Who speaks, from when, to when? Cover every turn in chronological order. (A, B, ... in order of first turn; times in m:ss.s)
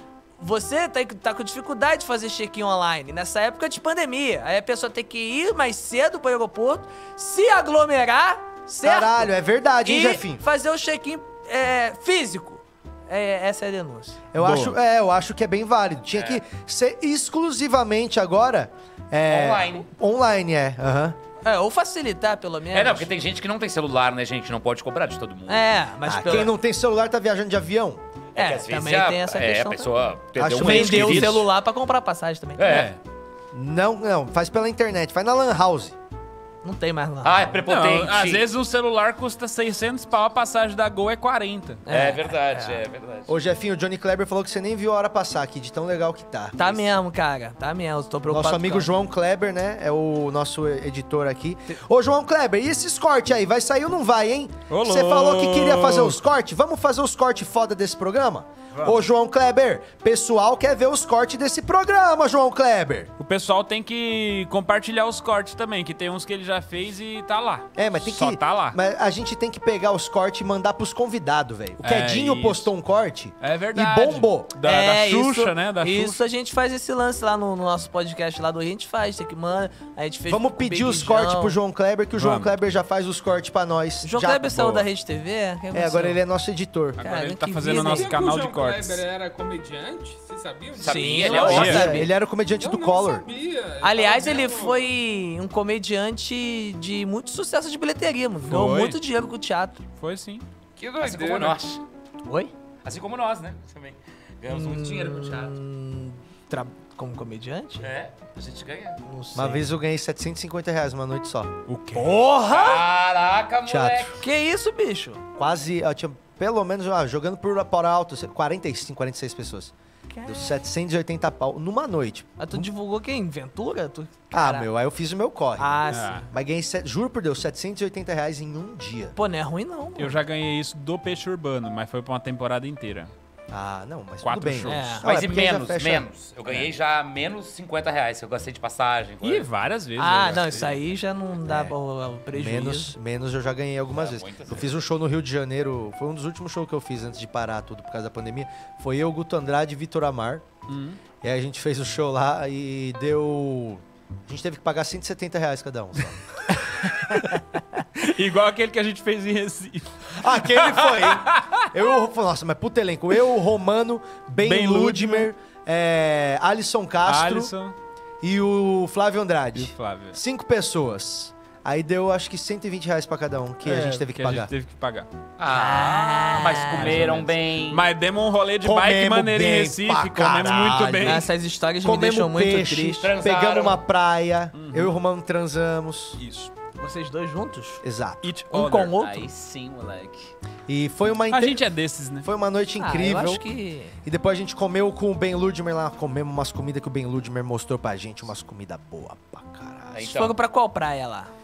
0:00.4-0:09.3 A
0:08.8-0:10.4 B
0:09.8-0:14.2 A
0:14.3-0:21.2 B
0:14.4-0:14.8 C
0:16.1-0:16.4 D
0:19.3-0:19.9 D
0:21.4-0:23.1 A
0:22.7-0:25.7 D
0:25.5-0:26.5 A
0:26.0-0:28.0 B
0:28.3-0:31.4 D
0:28.4-0:29.9 A
0:30.4-0:31.5 B
0:30.6-0:32.8 A
0:32.6-0:33.0 D
0:33.5-0:36.0 B
0:36.6-0:37.5 A
0:37.2-0:38.5 D
0:37.6-0:41.8 C
0:41.8-0:42.8 A
0:41.9-0:43.4 D
0:43.3-0:46.9 B
0:46.6-0:48.9 A
0:48.3-1:03.1 B
0:54.7-0:56.2 C
0:58.7-0:59.0 C
1:03.2-1:08.8 C
1:07.8-1:14.5 B
1:11.8-1:12.7 C
1:13.4-1:16.2 C
1:14.6-1:21.6 A
1:20.3-1:24.8 B
1:22.1-1:22.5 C
1:24.0-1:26.2 A
1:25.7-1:27.0 B
1:27.0-1:29.0 C
1:27.0-1:28.1 A
1:27.7-1:31.5 E
1:30.8-1:32.0 D
1:30.8-1:32.1 A
1:31.3-1:33.3 B
1:31.4-1:32.0 C
1:32.6-1:34.8 E
1:33.8-1:39.8 A
1:38.5-1:39.0 C
1:40.0-1:40.4 C
1:40.8-1:41.6 E
1:41.0-1:41.8 D
1:42.2-1:42.5 A
1:42.8-1:45.6 D
1:44.5-1:47.9 A
1:47.8-1:49.0 D
1:49.0-1:49.7 A
1:49.3-1:51.5 B
1:51.7-1:52.2 C
1:51.9-1:52.8 A
1:52.5-1:54.2 D
1:53.6-1:54.2 B
1:54.2-1:55.2 A
1:55.4-1:59.7 B
2:00.1-2:00.5 A
2:00.2-2:02.7 B
2:02.4-2:04.7 A
2:04.3-2:09.2 B
2:05.6-2:06.3 A
2:05.9-2:06.3 C
2:09.2-2:10.2 A
2:10.0-2:13.1 C
2:13.5-2:16.1 B
2:14.2-2:15.0 C
2:14.6-2:15.0 A
2:15.0-2:19.5 D
2:19.2-2:20.8 C
2:20.0-2:22.9 A
2:21.4-2:21.7 B
2:22.3-2:30.5 B
2:23.9-2:24.9 D
2:30.7-2:31.0 C
2:31.2-2:36.2 B
2:36.7-2:37.4 C
2:38.0-2:41.7 C
2:40.2-2:47.5 B
2:44.4-2:45.3 C
2:47.0-2:47.8 C
2:48.2-2:54.5 B
2:49.5-2:50.2 C
2:53.6-2:55.1 C
2:55.4-2:57.9 D
2:55.5-2:57.2 A
2:56.8-3:01.3 C
2:58.6-3:01.3 B
3:01.0-3:03.1 A
3:01.8-3:06.2 B
3:03.0-3:03.8 D
3:04.5-3:04.9 C
3:06.2-3:06.5 C
3:06.8-3:07.8 A
3:07.8-3:08.3 B
3:08.2-3:09.0 C
3:08.5-3:09.3 A
3:08.9-3:10.3 D
3:10.7-3:11.6 B
3:11.3-3:12.3 C
3:12.2-3:13.4 B
3:12.8-3:14.0 A
3:14.0-3:20.1 B
3:19.9-3:20.4 D
3:20.0-3:21.3 A